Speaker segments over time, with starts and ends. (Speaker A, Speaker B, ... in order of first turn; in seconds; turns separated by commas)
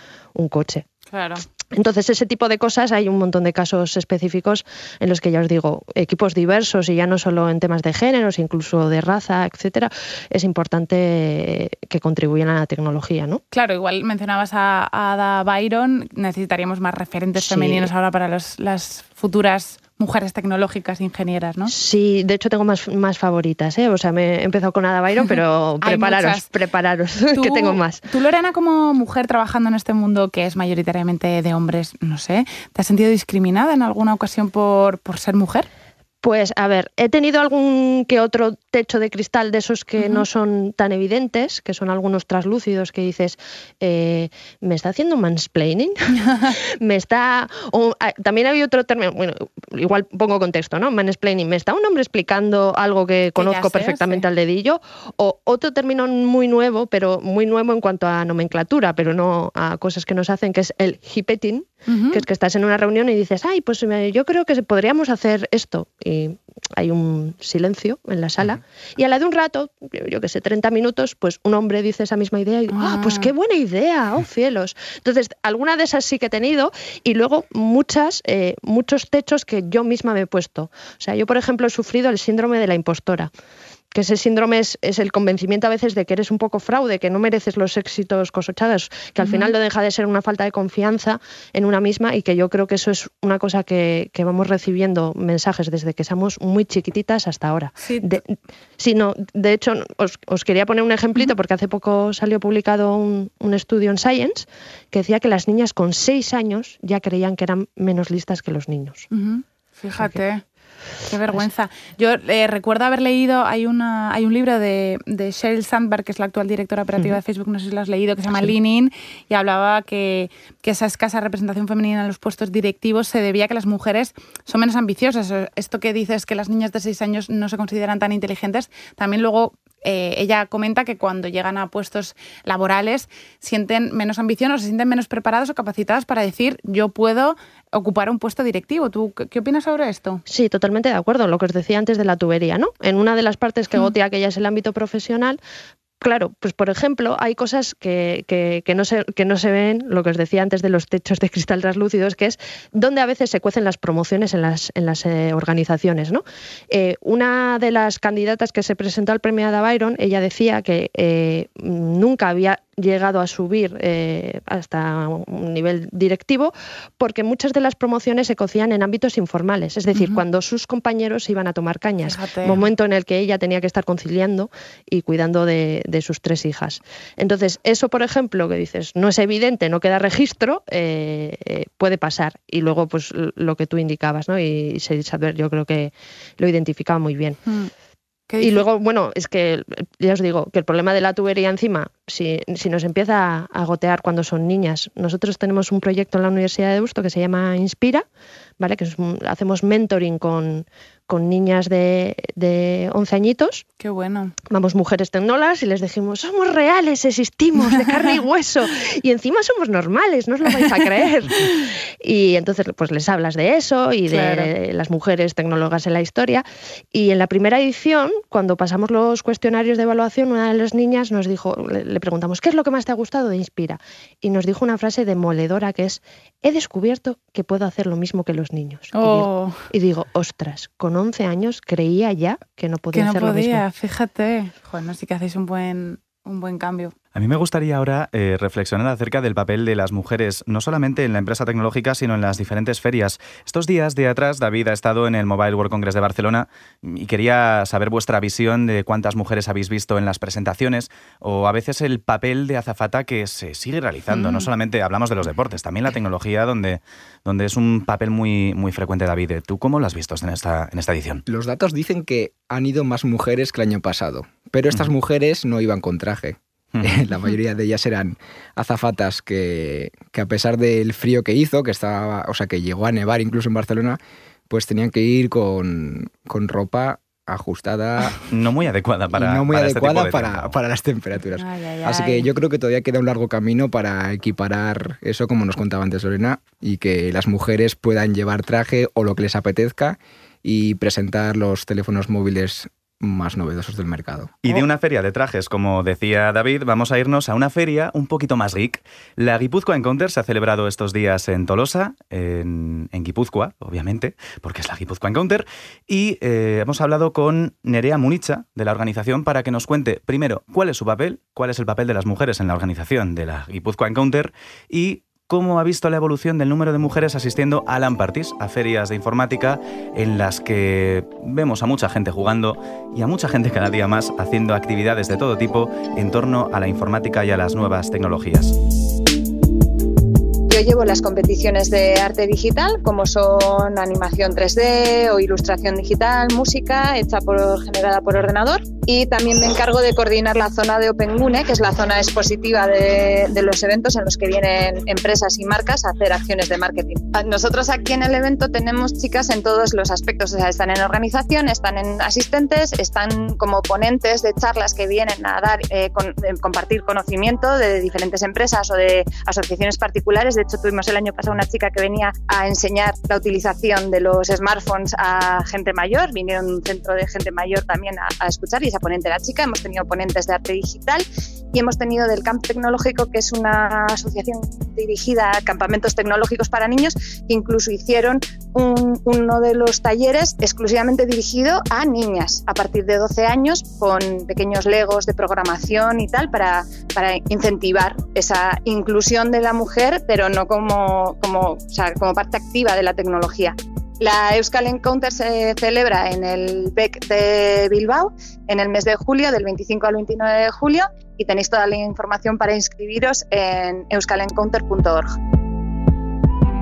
Speaker A: 0.3-0.9, Speaker B: 1.1-1.4, Speaker A: 1.7-13.4, Speaker B: 13.5-21.7, Speaker A: 17.4-17.9, Speaker A: 21.7-28.0, Speaker B: 25.8-26.5, Speaker B: 27.3-35.7, Speaker A: 36.2-83.3, Speaker B: 40.0-40.2, Speaker B: 53.4-54.2, Speaker B: 61.9-62.2, Speaker B: 72.7-73.3, Speaker A: 83.9-98.2, Speaker B: 89.2-89.5, Speaker B: 97.8-98.2, Speaker A: 98.8-109.1, Speaker B: 109.1-110.4, Speaker B: 111.1-140.2, Speaker A: 140.3-145.4, Speaker A: 146.0-187.4, Speaker B: 169.9-170.2, Speaker B: 172.0-172.6, Speaker B: 188.3-188.7, Speaker A: 188.4-198.0, Speaker A: 198.6-203.7, Speaker B: 203.8-204.3, Speaker A: 204.5-233.6, Speaker B: 214.1-214.5, Speaker B: 228.9-229.6, Speaker B: 232.9-236.9, Speaker C: 237.1-261.2, Speaker B: 254.1-254.5, Speaker D: 261.3-278.2, Speaker C: 266.7-267.0, Speaker C: 278.2-280.6, Speaker D: 279.1-294.6, Speaker B: 281.4-282.3, Speaker C: 294.4-328.6, Speaker E: 330.5-405.2